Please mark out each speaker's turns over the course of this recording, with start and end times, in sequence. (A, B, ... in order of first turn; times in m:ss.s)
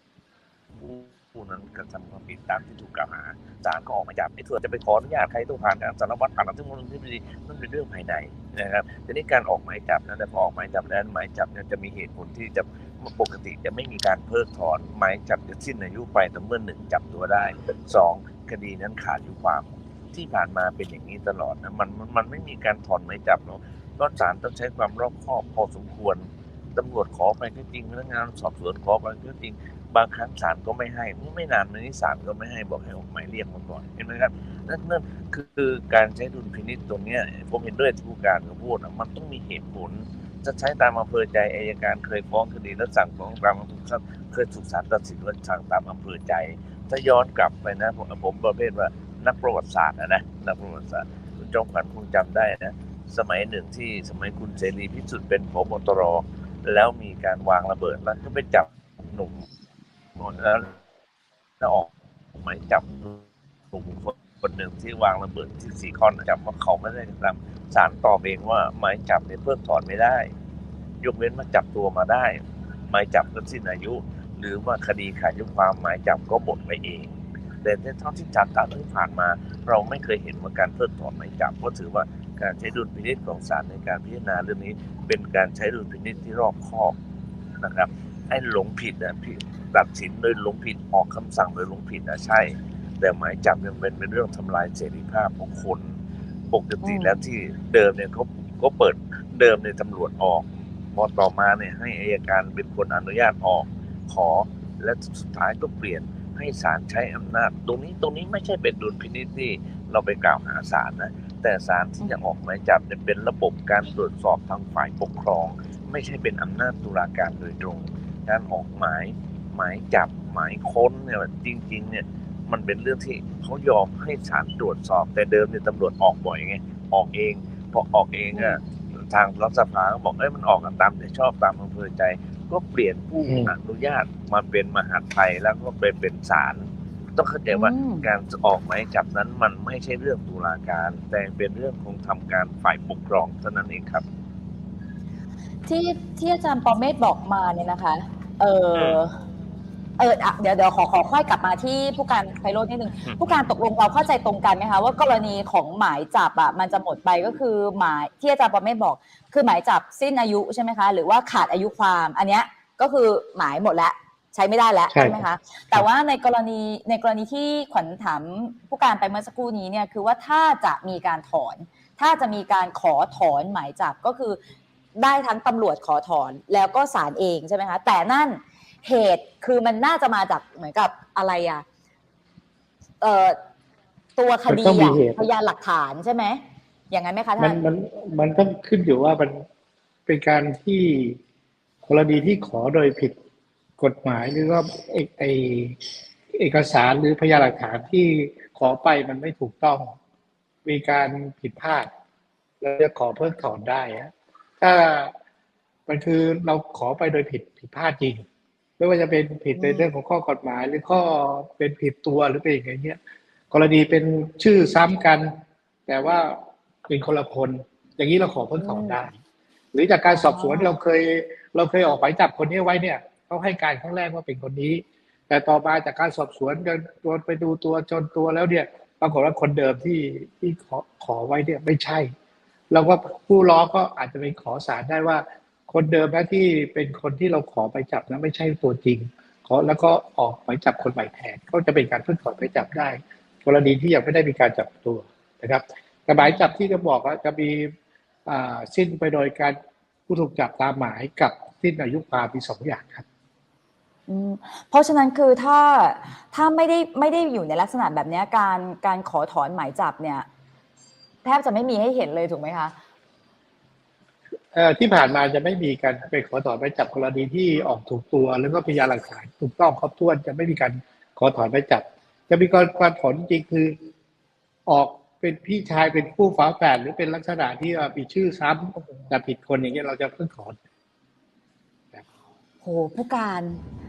0:00.8-0:59.4 A
1:00.2-1:00.8 A
1:01.6-1:10.3 A
1:11.0-1:12.4 A
1:12.9-1:26.9 A
1:27.6-1:35.9 A
1:36.5-2:24.0 A
1:36.8-1:37.2 B
2:08.3-2:08.6 B
2:13.2-2:13.5 C
2:17.5-2:18.1 B
2:25.6-2:29.1 B
2:28.7-2:29.0 A
2:30.0-2:54.4 B
2:44.9-2:45.8 C
2:55.0-3:01.6 B
3:03.0-3:03.4 B
3:04.2-3:07.6 B
3:04.5-3:05.2 C
3:07.4-3:09.4 C
3:10.1-3:11.2 C
3:11.8-3:13.2 C
3:13.8-3:15.8 C
3:16.3-3:19.9 C
3:20.6-3:21.9 C
3:22.6-3:25.1 C
3:25.9-3:28.2 C
3:28.8-3:33.0 C
3:29.6-3:29.9 B
3:33.5-3:35.3 C
3:35.9-3:39.2 C
3:38.6-3:39.0 B
3:39.7-3:52.1 C
3:40.1-3:40.7 B
3:52.7-4:07.7 C
4:06.2-4:06.5 B
4:08.2-4:09.6 C
4:10.1-4:13.0 C
4:14.1-4:20.2 B
4:21.2-4:22.7 B
4:24.5-4:33.7 C
4:34.7-4:40.6 C
4:42.6-4:43.6 B